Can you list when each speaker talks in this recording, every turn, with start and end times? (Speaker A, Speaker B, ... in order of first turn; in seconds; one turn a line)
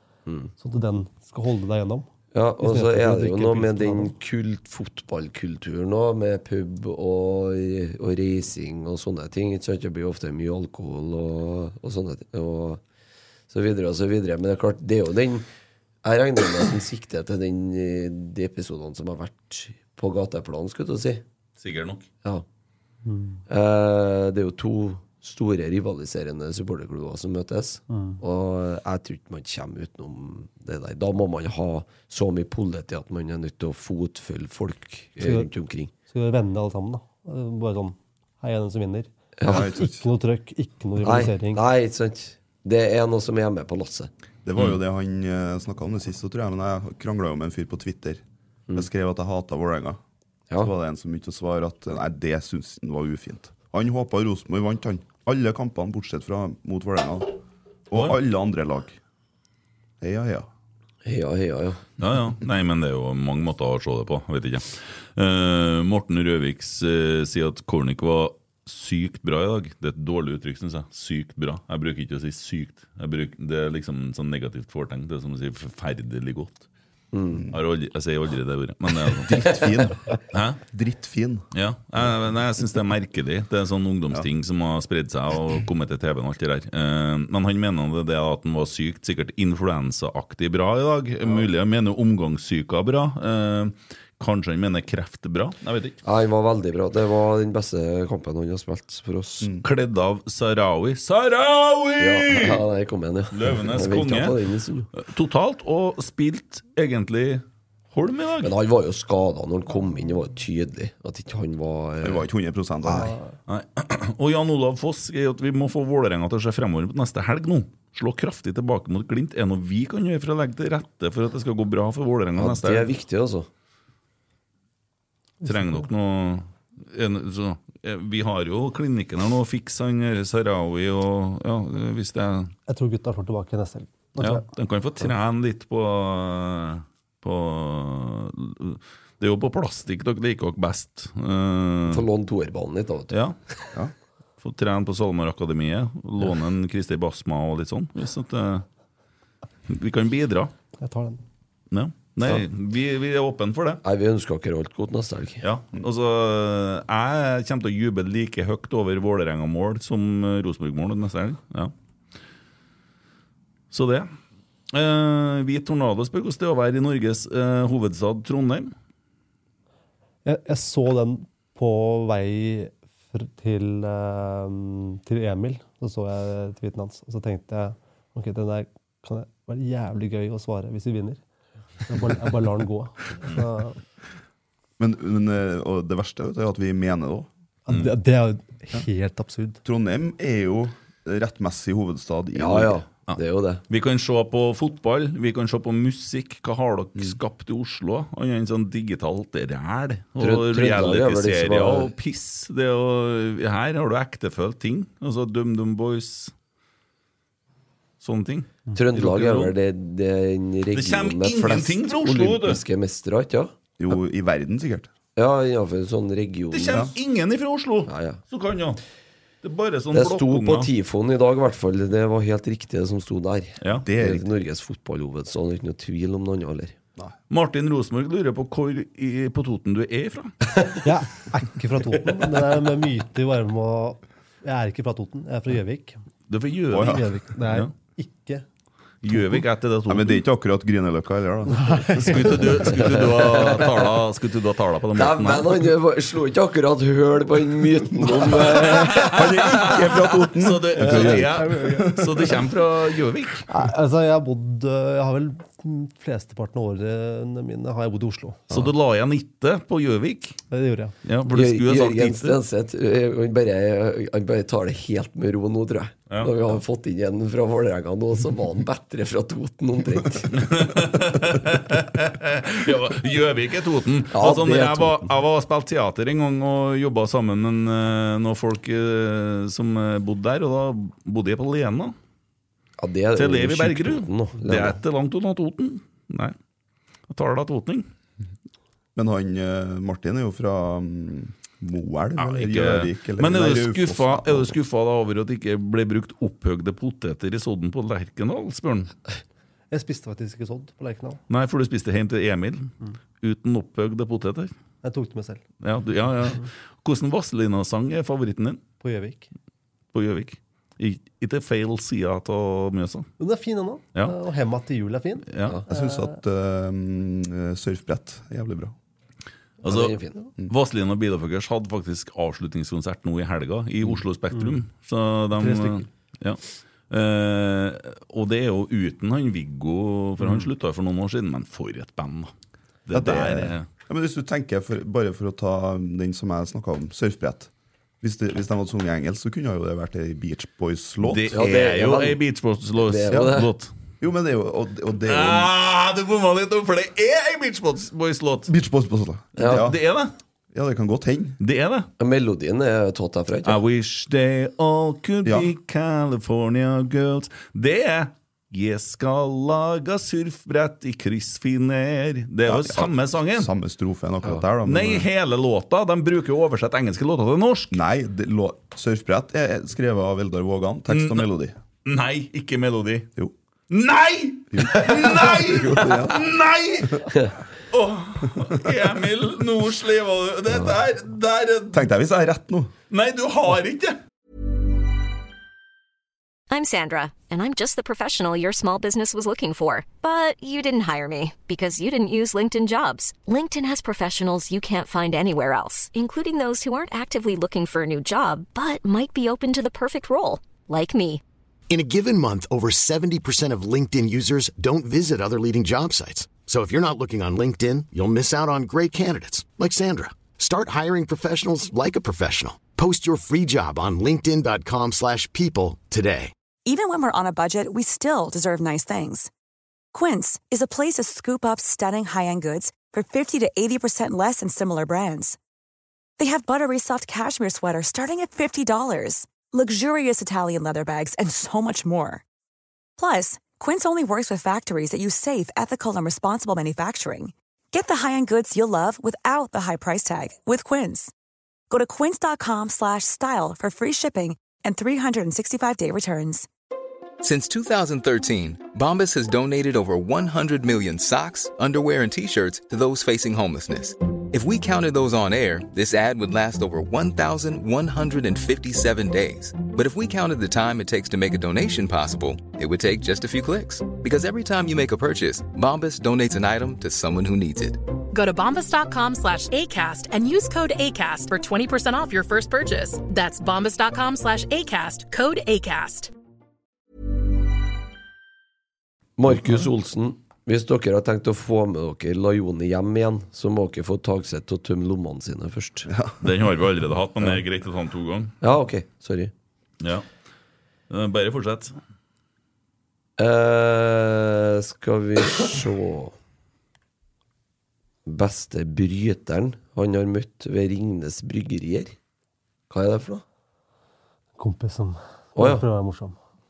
Speaker A: 0.2-0.5
Speaker B: 0.6-2.1
Speaker A: 2.3-12.8
Speaker B: 2.6-4.1
Speaker A: 13.5-15.5
Speaker A: 16.0-21.2
Speaker C: 21.6-22.1
Speaker B: 23.1-23.4
Speaker A: 23.5-35.9
Speaker B: 27.9-28.2
Speaker B: 35.2-35.5
Speaker B: 36.1-41.6
Speaker A: 39.4-39.7
Speaker D: 39.4-40.0
Speaker A: 41.0-44.1
Speaker D: 44.4-48.2
Speaker D: 48.7-50.0
Speaker D: 50.6-59.0
Speaker D: 60.0-60.5
Speaker A: 61.0-61.8
Speaker C: 62.0-76.7
Speaker A: 77.1-77.4
Speaker C: 77.5-79.4
Speaker D: 79.2-80.0
Speaker C: 80.3-80.6
Speaker D: 80.7-81.4
Speaker C: 81.5-96.0
Speaker A: 96.0-99.5
Speaker C: 99.6-102.6
Speaker A: 102.0-104.9
Speaker C: 103.3-104.3
Speaker C: 105.0-108.5
Speaker A: 108.4-112.2
Speaker D: 112.0-113.1
Speaker C: 113.5-122.9
Speaker A: 122.4-123.5
Speaker B: 125.4-125.8
Speaker C: 125.4-132.5
Speaker B: 132.7-134.4
Speaker C: 134.2-142.0
Speaker A: 141.9-143.1
Speaker C: 143.1-143.3
Speaker C: 144.4-148.6
Speaker C: 149.7-150.5
Speaker B: 150.8-151.2
Speaker C: 151.7-153.8
Speaker A: 153.8-155.4
Speaker C: 155.4-161.7
Speaker C: 163.7-164.1
Speaker C: 164.7-168.7
Speaker B: 170.2-181.2
Speaker B: 181.8-183.8
Speaker D: 184.8-187.3
Speaker B: 187.7-189.6
Speaker D: 189.6-192.8
Speaker A: 192.3-193.6
Speaker C: 193.7-206.3
Speaker A: 200.2-201.9
Speaker C: 208.0-209.5
Speaker A: 208.7-213.5
Speaker C: 210.7-212.6
Speaker D: 213.8-214.9
Speaker A: 215.2-216.9
Speaker C: 216.5-218.8
Speaker A: 217.9-218.2
Speaker C: 219.4-220.7
Speaker A: 219.9-226.8
Speaker D: 223.8-224.2
Speaker C: 227.3-230.3
Speaker B: 230.8-236.0
Speaker C: 236.3-237.7
Speaker D: 236.7-237.1
Speaker B: 236.7-238.4
Speaker C: 239.0-240.2
Speaker D: 239.9-242.4
Speaker B: 241.5-242.4
Speaker C: 242.0-245.7
Speaker A: 242.9-243.9
Speaker A: 244.9-249.2
Speaker C: 248.2-253.5
Speaker D: 249.1-252.3
Speaker A: 250.9-251.1
Speaker B: 251.4-251.9
Speaker B: 253.5-258.5
Speaker C: 258.5-260.4
Speaker B: 260.5-260.9
Speaker C: 261.0-262.4
Speaker A: 261.3-270.4
Speaker C: 266.1-266.3
Speaker C: 270.3-281.9
Speaker A: 274.1-275.0
Speaker A: 282.8-284.8
Speaker C: 283.1-286.3
Speaker C: 287.1-287.9
Speaker D: 288.9-294.6
Speaker C: 292.2-298.9
Speaker B: 299.7-301.2
Speaker C: 301.3-304.5
Speaker B: 304.8-305.4
Speaker C: 305.6-308.6
Speaker B: 308.8-309.3
Speaker C: 309.9-313.1
Speaker B: 313.2-316.2
Speaker C: 315.3-315.6
Speaker D: 315.7-318.7
Speaker C: 319.6-332.3
Speaker A: 319.6-320.2
Speaker B: 325.4-325.9
Speaker C: 332.9-333.6
Speaker D: 332.9-337.5
Speaker D: 338.0-341.6
Speaker C: 341.0-343.7
Speaker A: 341.3-342.2
Speaker A: 342.8-343.5
Speaker D: 344.0-345.5
Speaker C: 345.1-348.5
Speaker D: 348.5-349.8
Speaker A: 349.4-349.6
Speaker C: 349.4-350.1
Speaker D: 350.5-351.4
Speaker C: 351.4-351.9
Speaker A: 352.0-353.6
Speaker C: 353.4-363.5
Speaker D: 355.2-355.5
Speaker D: 362.5-365.1
Speaker C: 364.6-367.8
Speaker D: 367.7-371.6
Speaker C: 370.9-371.3
Speaker C: 371.8-373.1
Speaker C: 373.7-377.1
Speaker D: 374.5-376.3
Speaker C: 377.7-381.8
Speaker D: 381.7-382.7
Speaker C: 382.9-384.0
Speaker E: 386.5-401.2
Speaker F: 401.7-416.3
Speaker G: 416.6-419.3
Speaker G: 419.9-425.4
Speaker G: 426.2-432.2
Speaker G: 433.0-441.1
Speaker G: 441.7-446.5
Speaker H: 447.2-467.8
Speaker I: 468.1-476.1
Speaker A: 479.2-485.9
Speaker C: 486.2-488.3
Speaker A: 488.4-489.3
Speaker C: 490.9-491.7
Speaker A: 493.2-496.1
Speaker A: 498.1-501.9
Speaker A: 502.7-503.2
Speaker B: 504.4-506.1
Speaker A: 505.4-505.6